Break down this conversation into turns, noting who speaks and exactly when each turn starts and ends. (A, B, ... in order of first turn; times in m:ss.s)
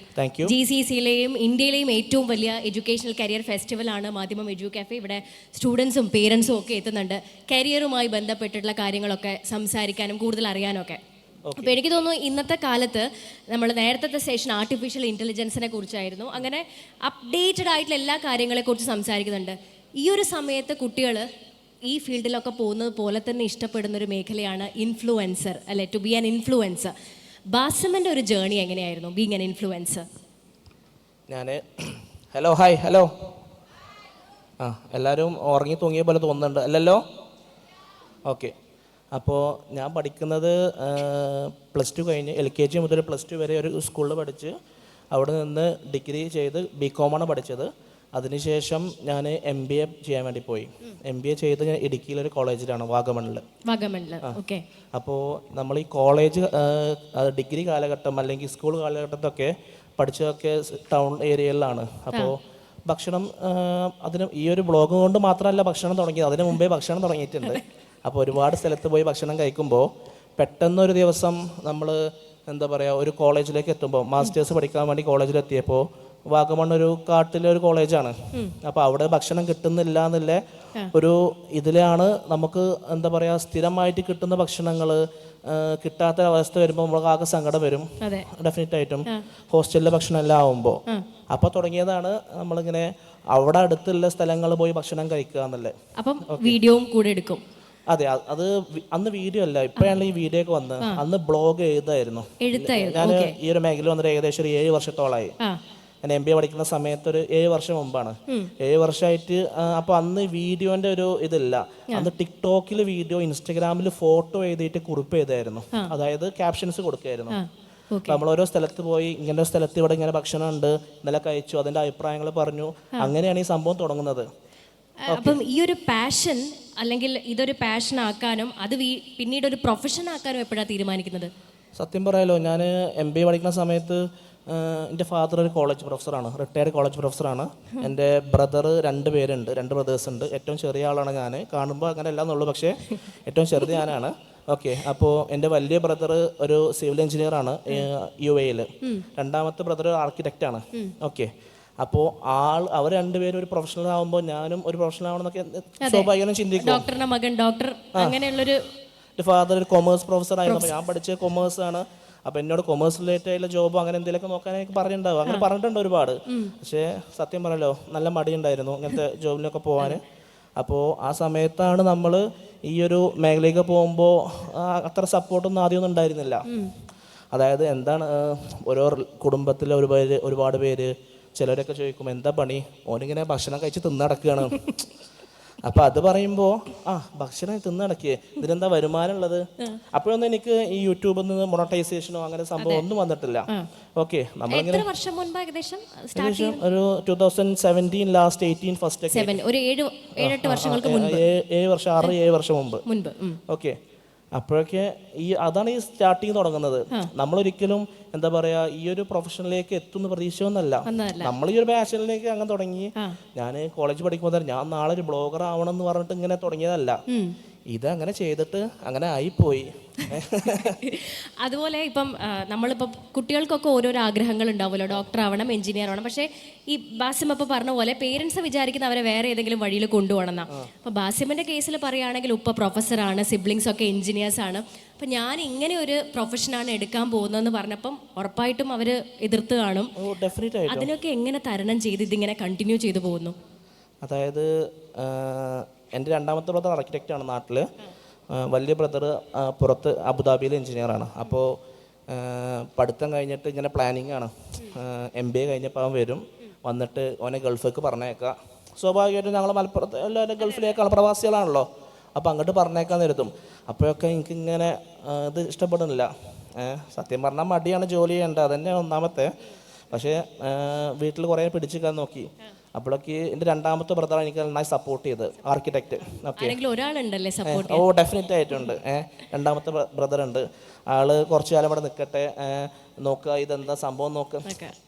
0:00.1-0:00.5 A
0:00.4-0:11.0 B
0:11.4-0:11.8 A
0:11.6-0:21.2 B
0:21.9-0:26.9 B
0:27.5-0:30.0 B
0:31.3-0:33.1 A
0:34.6-0:37.0 A
0:38.3-0:38.5 A
0:39.1-0:44.5 A
0:45.1-0:53.4 A
0:53.7-0:54.6 B
0:54.9-1:20.4 A
1:20.9-1:35.7 A
1:28.0-1:28.3 B
1:36.0-1:37.4 B
1:36.3-1:36.6 A
1:37.9-1:45.3 A
1:42.4-1:43.3 B
1:46.0-1:57.4 A
1:57.3-1:58.2 B
1:58.0-2:04.3 A
2:05.0-2:11.3 B
2:05.1-2:05.4 A
2:11.8-2:36.8 A
2:35.8-2:38.6 B
2:37.9-2:38.2 A
2:39.2-2:50.0 A
2:46.3-2:46.5 B
2:50.6-2:56.4 A
2:56.5-2:56.7 B
2:57.3-3:04.7 A
3:05.6-3:14.9 A
3:12.6-3:12.8 B
3:14.5-3:16.6 B
3:16.1-3:19.4 A
3:19.1-3:21.2 B
3:20.2-3:22.8 A
3:22.8-3:23.4 B
3:23.5-3:23.8 A
3:24.3-3:37.0 A
3:30.8-3:31.3 B
3:37.1-3:37.3 B
3:37.7-3:40.8 A
3:40.0-3:59.9 B
4:00.0-4:00.9 A
4:00.7-4:03.3 B
4:04.0-4:07.6 A
4:08.3-4:11.6 A
4:12.1-4:29.4 A
4:29.9-4:36.6 A
4:36.4-4:37.8 B
4:37.4-4:44.6 A
4:44.4-4:44.7 B